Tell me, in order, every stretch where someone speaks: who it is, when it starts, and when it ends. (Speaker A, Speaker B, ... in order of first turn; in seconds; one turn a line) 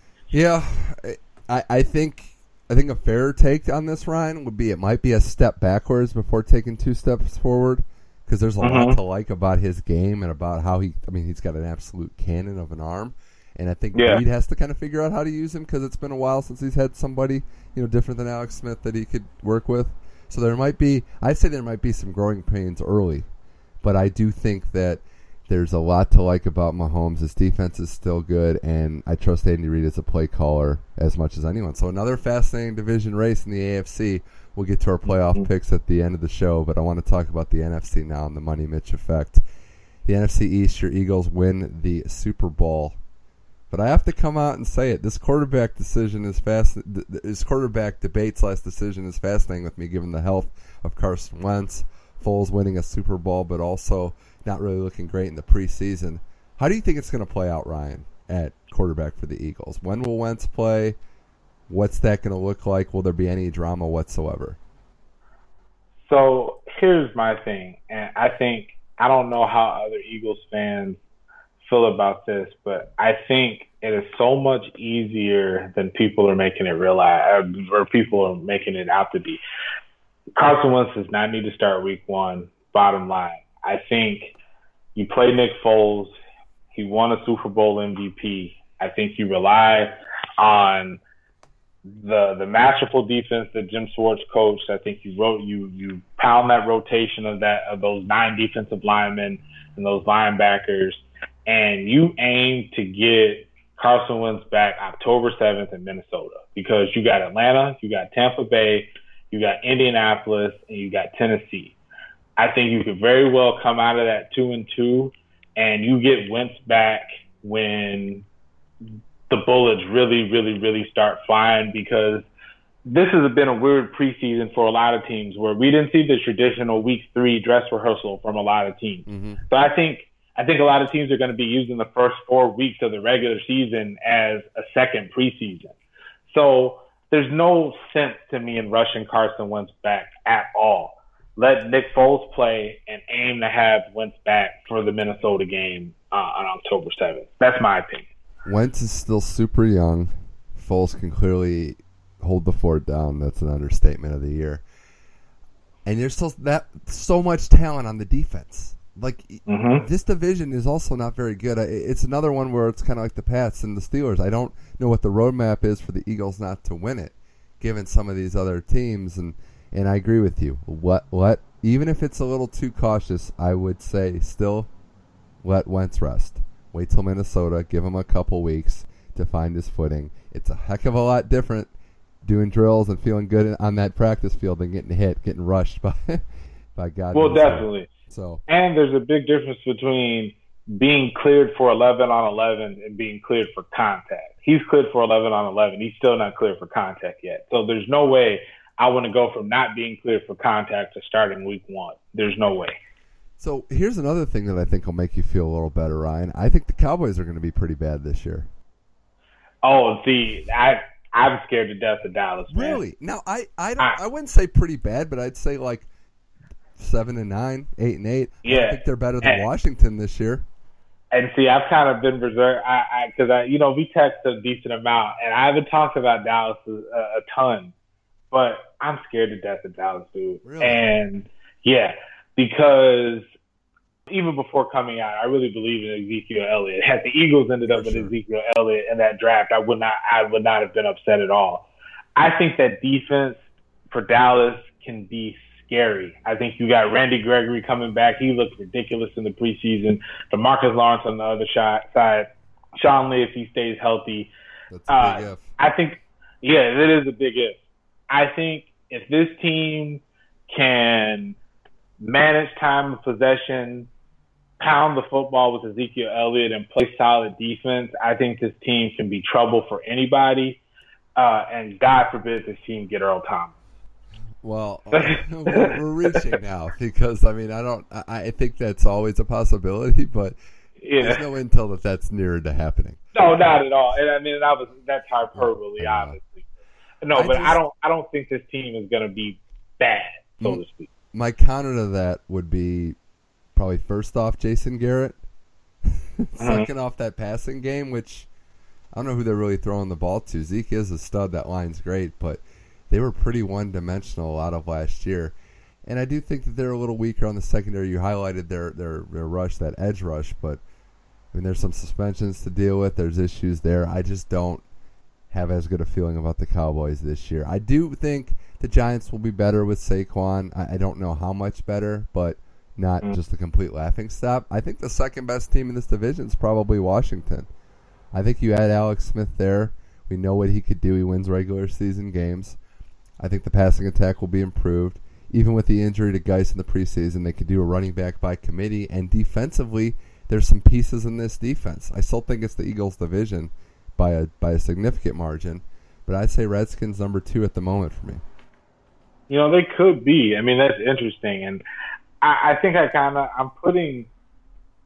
Speaker A: 0.3-23.2
Speaker B: 8.6-9.0
Speaker B: 13.9-14.2
Speaker A: 23.8-39.4
Speaker B: 35.1-35.5
Speaker A: 40.0-43.0
Speaker A: 43.7-61.0
Speaker A: 61.7-64.6
Speaker B: 66.0-71.0
Speaker B: 71.6-79.4
Speaker B: 80.4-84.3
Speaker B: 84.9-86.1
Speaker B: 86.7-91.0
Speaker B: 91.9-111.8
Speaker B: 112.4-118.2
Speaker B: 119.3-122.3
Speaker B: 122.8-135.7
Speaker A: 129.1-129.4
Speaker B: 136.3-148.1
Speaker A: 148.4-154.6
Speaker A: 155.8-174.7
Speaker B: 159.5-159.8
Speaker A: 175.4-181.7
Speaker A: 182.2-186.2
Speaker A: 186.8-188.4
Speaker B: 187.1-187.9
Speaker B: 188.5-202.8
Speaker A: 203.4-208.5
Speaker B: 209.6-212.8
Speaker A: 212.5-215.9
Speaker A: 216.8-220.4
Speaker B: 218.4-219.4
Speaker B: 221.1-227.7
Speaker B: 228.3-233.2
Speaker A: 230.4-231.2
Speaker B: 234.1-243.4
Speaker A: 237.7-238.1
Speaker B: 243.9-254.3
Speaker A: 254.7-255.5
Speaker B: 254.9-257.6
Speaker B: 258.1-261.4
Speaker B: 262.0-263.9
Speaker B: 264.6-270.6
Speaker B: 271.2-273.5
Speaker A: 274.4-280.4
Speaker B: 274.9-276.2
Speaker B: 280.8-281.2
Speaker A: 281.0-283.1
Speaker B: 283.1-286.4
Speaker A: 285.4-286.2
Speaker B: 287.0-290.9
Speaker A: 287.1-287.6
Speaker A: 291.1-292.9
Speaker A: 293.6-295.2
Speaker A: 295.9-298.3
Speaker B: 296.4-296.7
Speaker A: 298.9-305.3
Speaker A: 305.9-310.6
Speaker A: 311.3-314.6
Speaker A: 315.3-327.5
Speaker A: 328.1-332.6
Speaker A: 333.2-348.2
Speaker B: 349.3-351.6
Speaker B: 352.2-354.1